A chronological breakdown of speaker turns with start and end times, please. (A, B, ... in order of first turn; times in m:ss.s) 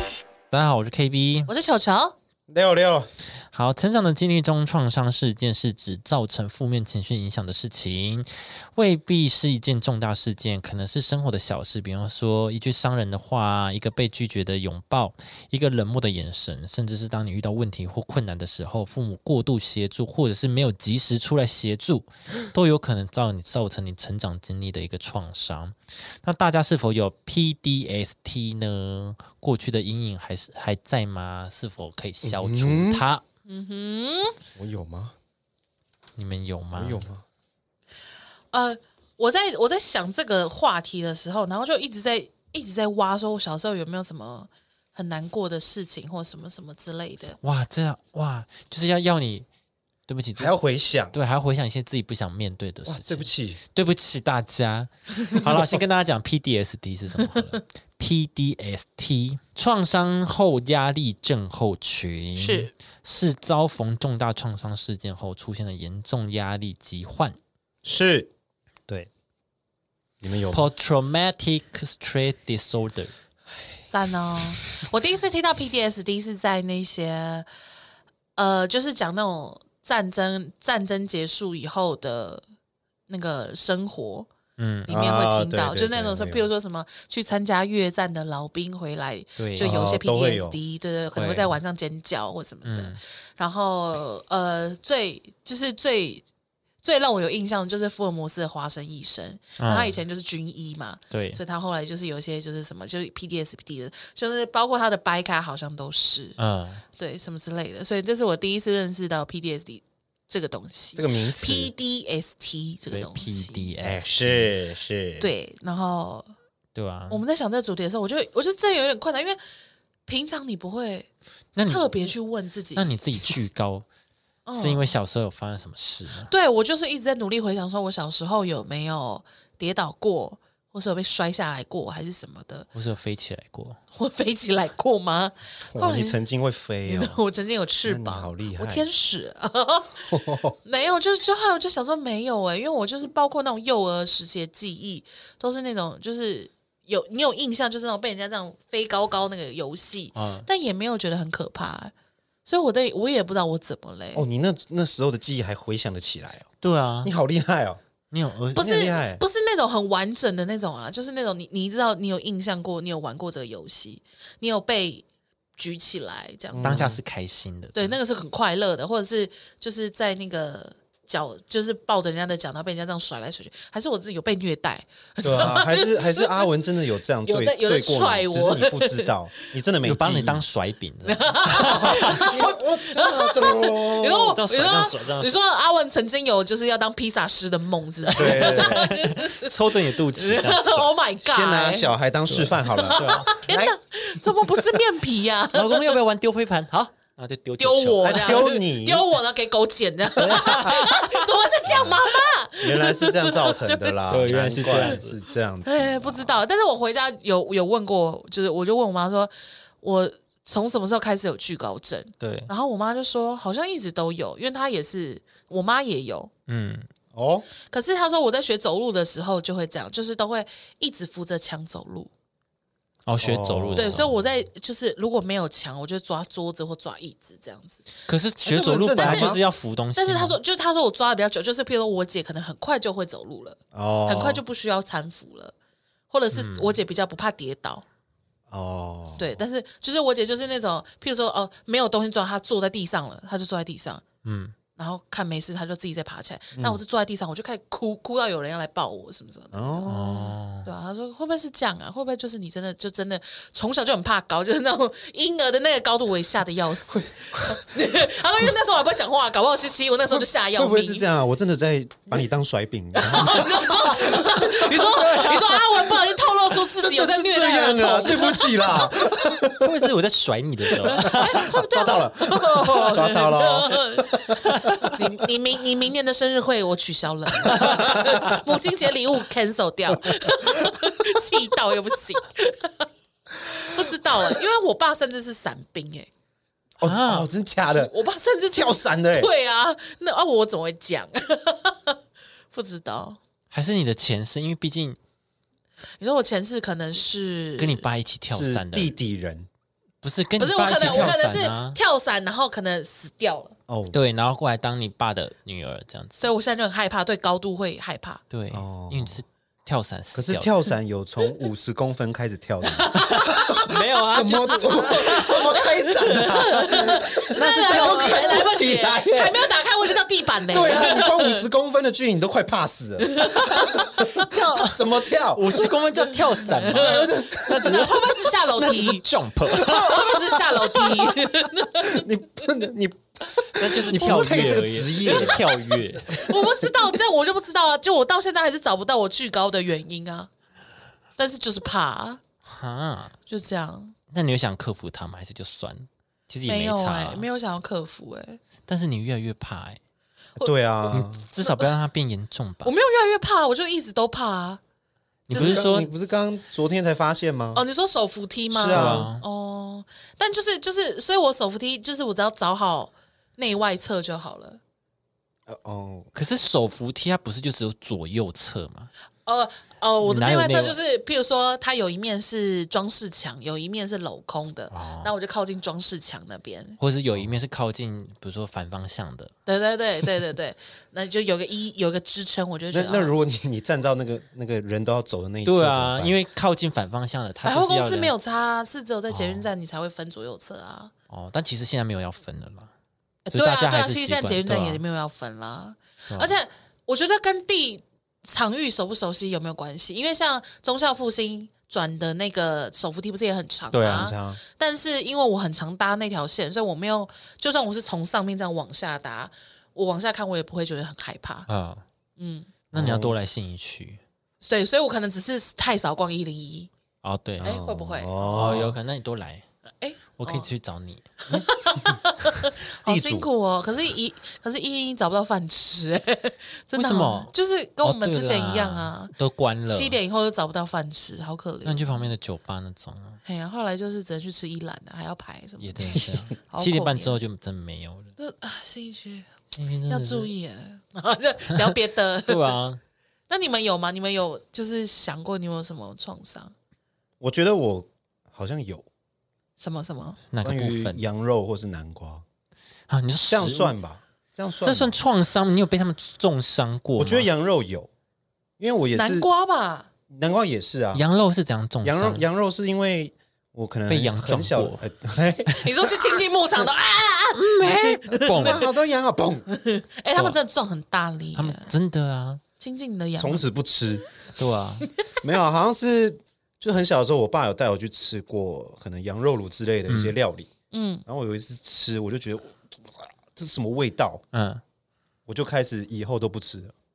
0:00.5-0:01.5 A
0:01.5-0:02.1 B
0:02.5-0:03.1 C
0:03.5-0:33.2 A
0:32.2-0:33.0 C
0:33.5-0:34.4 B
0:34.6-0:35.1 C
0:36.2-0:37.0 A
0:36.7-0:37.2 C
0:38.5-0:47.4 B
0:47.4-0:49.5 A
0:50.1-0:50.5 A
0:50.4-0:51.1 C
0:51.1-1:07.4 A
0:52.8-0:53.6 C
1:02.4-1:02.7 B
1:07.8-1:08.3 C
1:10.2-1:10.7 C
1:10.5-1:13.1 A
1:13.9-1:17.5 B
1:18.4-1:22.4 B
1:23.1-1:24.3 B
1:24.6-1:24.9 A
1:24.9-1:26.5 C
1:24.9-1:36.2 B
1:29.4-1:29.9 A
1:29.6-1:30.6 C
1:31.1-1:31.5 A
1:32.6-1:33.0 A
1:36.8-1:46.4 B
1:39.6-1:40.0 A
1:41.1-1:41.4 A
1:46.4-1:46.8 A
1:47.0-1:53.7 B
1:51.0-1:51.7 C
1:52.9-1:54.5 A
1:53.8-1:55.3 C
1:55.2-1:56.3 B
1:56.7-1:57.2 A
1:57.1-1:59.4 B
2:00.1-2:01.1 B
2:01.5-2:01.8 A
2:01.6-2:02.9 B
2:02.7-2:03.8 A
2:04.4-2:04.9 B
2:04.5-2:06.3 A
2:06.3-2:12.7 B
2:12.7-2:13.8 A
2:13.9-2:16.2 B
2:15.7-2:17.2 C
2:16.8-2:31.9 B
2:17.8-2:18.9 C
2:20.1-2:20.5 C
2:30.1-2:30.5 A
2:32.4-2:34.3 B
2:34.1-2:36.5 C
2:36.6-2:37.1 A
2:37.0-2:37.8 C
2:38.1-2:38.7 A
2:38.5-2:39.2 C
2:38.6-2:45.0 B
2:45.6-2:46.9 B
2:46.5-2:47.0 C
2:46.6-2:48.0 A
2:47.7-2:56.5 B
2:55.2-3:00.4 C
2:57.2-2:59.1 B
2:59.8-3:02.3 A
3:01.0-3:09.5 B
3:01.5-3:04.4 C
3:04.3-3:05.3 A
3:08.0-3:10.9 A
3:08.1-3:08.8 C
3:10.2-3:11.9 B
3:11.2-3:13.8 C
3:12.3-3:13.4 A
3:12.7-3:16.0 B
3:15.5-3:18.4 A
3:17.6-3:25.0 B
3:18.0-3:19.1 C
3:20.2-3:20.8 C
3:20.2-3:21.9 A
3:21.6-3:22.0 C
3:22.6-3:26.4 C
3:24.1-3:25.2 A
3:25.6-3:36.3 B
3:32.2-3:32.5 A
3:36.5-3:36.9 A
3:37.1-3:37.5 C
3:37.7-3:42.1 B
3:43.0-3:44.2 A
3:43.2-3:44.0 C
3:43.8-3:47.9 B
3:48.1-3:50.4 A
3:48.4-3:49.4 C
3:48.9-3:49.4 B
3:49.9-3:55.5 B
3:53.7-3:54.4 C
3:56.1-3:57.8 B
3:56.3-3:56.8 A
3:58.5-3:59.4 C
3:59.2-4:04.0 B
4:04.2-4:04.6 A
4:04.8-4:21.0 B
4:09.5-4:10.3 C
4:09.8-4:10.7 A
4:16.9-4:18.1 C
4:20.1-4:25.9 C
4:23.0-4:29.0 B
4:26.5-4:29.7 C
4:29.6-4:31.5 A
4:31.0-4:35.3 C
4:31.0-4:34.1 B
4:34.4-4:35.0 A
4:34.9-4:42.8 B
4:37.3-4:38.4 C
4:37.5-4:38.3 A
4:40.4-4:40.9 C
4:43.5-4:46.1 B
4:46.8-4:47.9 C
4:46.8-4:47.3 A
4:47.7-4:52.0 B
4:48.5-4:49.3 C
4:52.5-4:53.2 B
4:53.5-4:55.0 A
4:56.0-4:57.8 B
4:57.6-4:58.9 A
4:58.3-4:59.5 C
5:00.0-5:01.8 A
5:00.4-5:03.5 B
5:03.7-5:04.0 C
5:03.9-5:06.2 A
5:06.2-5:08.2 B
5:08.3-5:10.5 A
5:08.5-5:09.2 C
5:10.1-5:25.7 C
5:12.8-5:13.5 B
5:12.9-5:18.5 A
5:14.5-5:21.4 B
5:23.0-5:24.1 B
5:23.4-5:24.8 A
5:25.3-5:31.1 A
5:26.6-5:32.1 B
5:26.7-5:27.8 C
5:29.6-5:30.1 C
5:31.8-5:36.7 C
5:33.6-5:36.2 A
5:35.0-5:35.4 B
5:36.1-5:40.3 B
5:41.2-5:42.2 B
5:42.4-5:43.1 A
5:43.3-5:43.9 B
5:44.1-5:47.2 A
5:46.5-5:48.4 B
5:48.7-5:49.8 A
5:50.4-5:51.7 B
5:50.4-5:51.2 C
5:50.9-5:52.7 A
5:52.6-5:54.6 B
5:55.3-5:55.9 A
5:55.3-5:55.7 B
5:55.3-5:57.6 C
5:57.5-6:04.6 B
5:58.5-5:59.1 C
5:58.7-5:59.2 A
6:05.5-6:06.1 C
6:06.1-6:08.9 A
6:09.2-6:16.8 B
6:10.0-6:10.8 A
6:14.7-6:15.1 A
6:16.8-6:19.3 A
6:19.4-6:23.1 B
6:22.7-6:26.2 C
6:25.4-6:28.1 A
6:27.4-6:30.9 B
6:29.1-6:29.5 A
6:31.1-6:32.7 A
6:33.3-6:51.5 B
6:33.3-6:34.8 A
6:36.1-6:36.4 A
6:43.7-6:44.1 A
6:43.8-6:44.4 C
6:51.5-6:51.8 A
6:52.2-6:52.5 B
6:52.7-6:54.0 A
6:52.7-6:53.1 C
6:54.4-6:56.7 B
6:57.0-6:57.5 A
6:57.4-6:58.7 C
6:57.4-6:58.7 B
6:58.2-6:59.4 A
6:59.8-7:00.5 B
7:00.2-7:01.0 A
7:01.3-7:09.1 B
7:01.3-7:01.9 C
7:02.8-7:03.3 C
7:06.7-7:10.0 A
7:09.7-7:12.1 B
7:11.6-7:13.2 A
7:13.2-7:17.2 B
7:15.6-7:18.1 A
7:18.2-7:19.3 B
7:19.5-7:20.3 A
7:19.9-7:22.6 B
7:21.5-7:21.7 A
7:22.2-7:22.8 A
7:23.3-7:26.5 B
7:27.2-7:28.8 C
7:29.6-7:30.2 B
7:30.3-7:31.0 A
7:30.4-7:32.2 C
7:32.9-7:33.7 A
7:33.2-7:35.0 C
7:34.6-7:37.3 A
7:37.0-7:37.9 C
7:38.6-7:39.3 C
7:38.9-7:39.9 B
7:40.1-7:41.0 C
7:40.9-7:42.2 A
7:41.8-7:45.9 C
7:43.9-7:44.8 A
7:45.4-7:45.7 A
7:45.6-7:48.6 B
7:47.4-7:48.7 A
7:48.3-7:49.4 C
7:49.6-7:51.7 B
7:51.3-7:52.4 A
7:52.6-7:53.4 B
7:53.2-7:54.0 C
7:54.4-7:54.9 A
7:55.2-8:00.5 C
7:59.9-8:00.2 A
8:00.7-8:01.0 B
8:01.0-8:04.2 C
8:04.3-8:04.6 A
8:05.3-8:06.7 C